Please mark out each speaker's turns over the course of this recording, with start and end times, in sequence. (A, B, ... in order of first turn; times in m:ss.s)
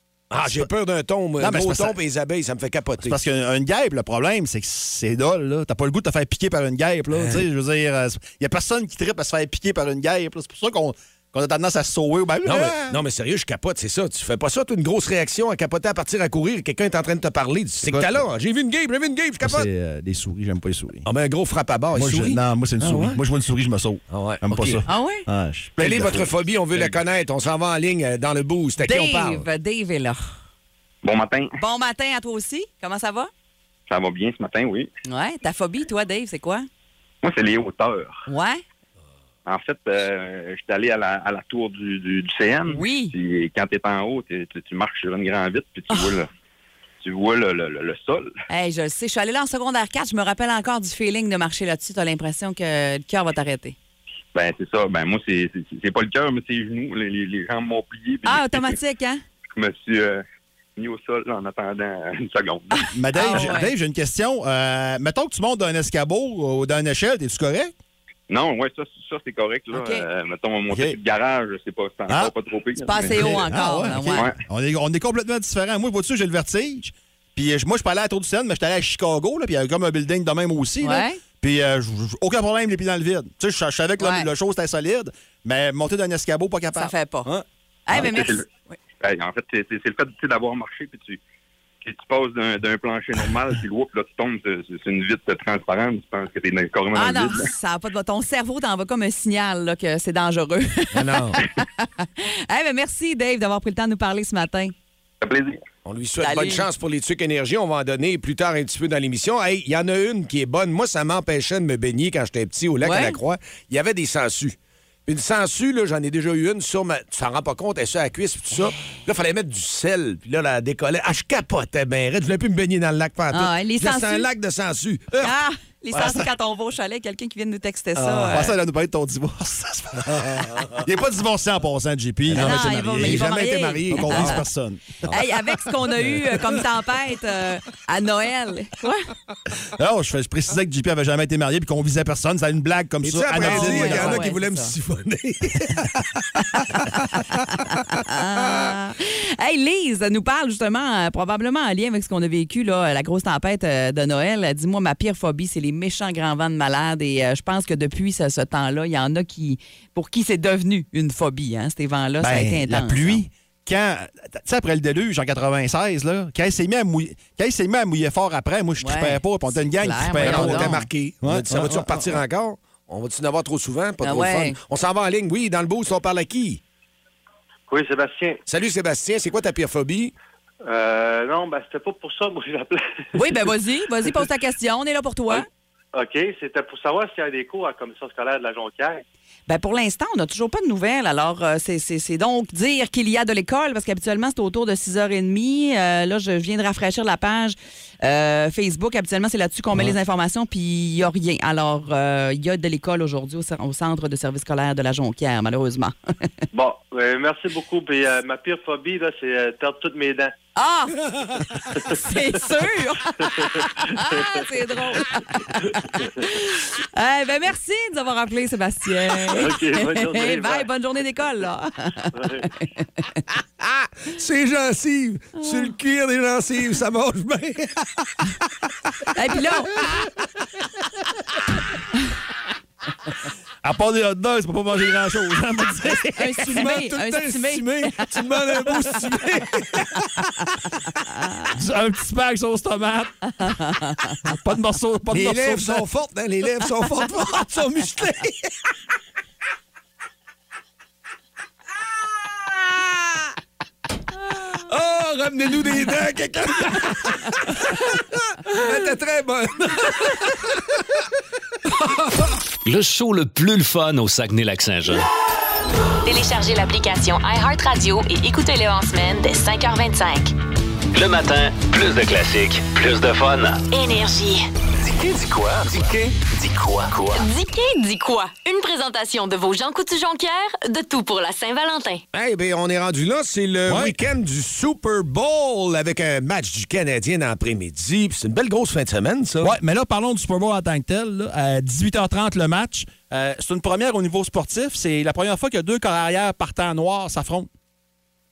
0:00.3-0:03.2 A
0:00.4-0:00.7 B
0:01.4-0:02.0 B
0:03.0-0:13.0 B
0:07.1-0:07.4 A
0:12.4-0:19.7 A
0:17.8-0:18.3 B
0:19.4-0:21.1 B
0:21.0-0:23.2 A
0:21.9-0:27.0 B
0:24.1-0:24.8 A
0:24.9-0:25.3 C
0:25.8-0:29.5 A
0:28.8-0:30.4 C
0:31.0-0:31.5 D
0:31.6-0:33.3 C
0:33.9-0:34.9 D
0:35.1-0:36.7 C
0:37.2-0:38.2 D
0:38.3-0:38.6 C
0:39.5-0:46.3 D
0:42.7-0:43.1 C
0:47.0-0:48.3 D
0:48.5-0:53.8 C
0:54.3-0:58.8 D
0:58.2-0:59.2 C
0:59.5-1:00.2 D
1:00.8-1:03.4 D
1:02.7-1:03.7 C
1:03.0-1:07.7 B
1:08.3-1:13.4 D
1:09.7-1:10.0 C
1:10.7-1:11.0 B
1:12.1-1:12.3 B
1:12.8-1:14.3 C
1:13.0-1:27.4 B
1:14.1-1:14.4 D
1:20.8-1:21.2 C
1:24.0-1:24.3 C
1:26.8-1:27.3 C
1:27.9-1:28.8 C
1:27.9-1:28.4 D
1:29.0-1:31.2 D
1:31.8-1:37.5 D
1:36.9-1:44.7 C
1:40.9-1:41.4 A
1:45.2-1:45.6 D
1:45.8-2:05.4 A
1:46.2-1:46.6 C
1:52.8-1:53.2 C
2:03.3-2:04.3 C
2:05.2-2:08.6 C
2:05.9-2:06.3 B
2:08.0-2:13.3 B
2:12.3-2:14.4 A
2:12.4-2:14.4 C
2:13.9-2:15.0 B
2:15.0-2:19.0 C
2:19.8-2:24.3 B
2:23.0-2:25.9 A
2:23.4-2:24.7 C
2:26.5-2:43.2 C
2:42.2-2:52.2 B
2:48.8-2:50.9 C
2:50.2-2:56.6 A
2:54.0-2:54.6 C
2:57.7-2:58.4 E
2:58.5-3:00.1 A
3:00.6-3:03.4 E
3:03.1-3:05.5 C
3:05.3-3:09.0 E
3:09.5-3:25.9 C
3:26.5-3:30.3 E
3:30.6-3:31.1 C
3:31.7-3:43.2 C
3:33.2-3:34.5 E
3:35.6-3:36.2 E
3:39.3-3:40.7 E
3:42.2-3:42.4 E
3:44.0-3:47.9 A
3:45.4-3:45.7 C
3:49.1-3:49.8 C
3:53.6-3:56.5 B
3:56.2-3:58.1 C
3:56.4-4:00.1 A
4:01.0-4:01.5 C
4:01.5-4:03.6 B
4:03.4-4:04.2 C
4:04.2-4:05.9 B
4:05.1-4:08.4 A
4:14.3-4:20.5 A
4:22.6-4:25.0 F
4:26.0-4:30.3 G
4:30.9-4:33.7 F
4:33.7-4:34.5 G
4:34.8-4:37.3 F
4:37.1-4:42.0 G
4:42.1-4:49.6 A
4:43.7-4:44.0 B
4:49.4-4:57.5 B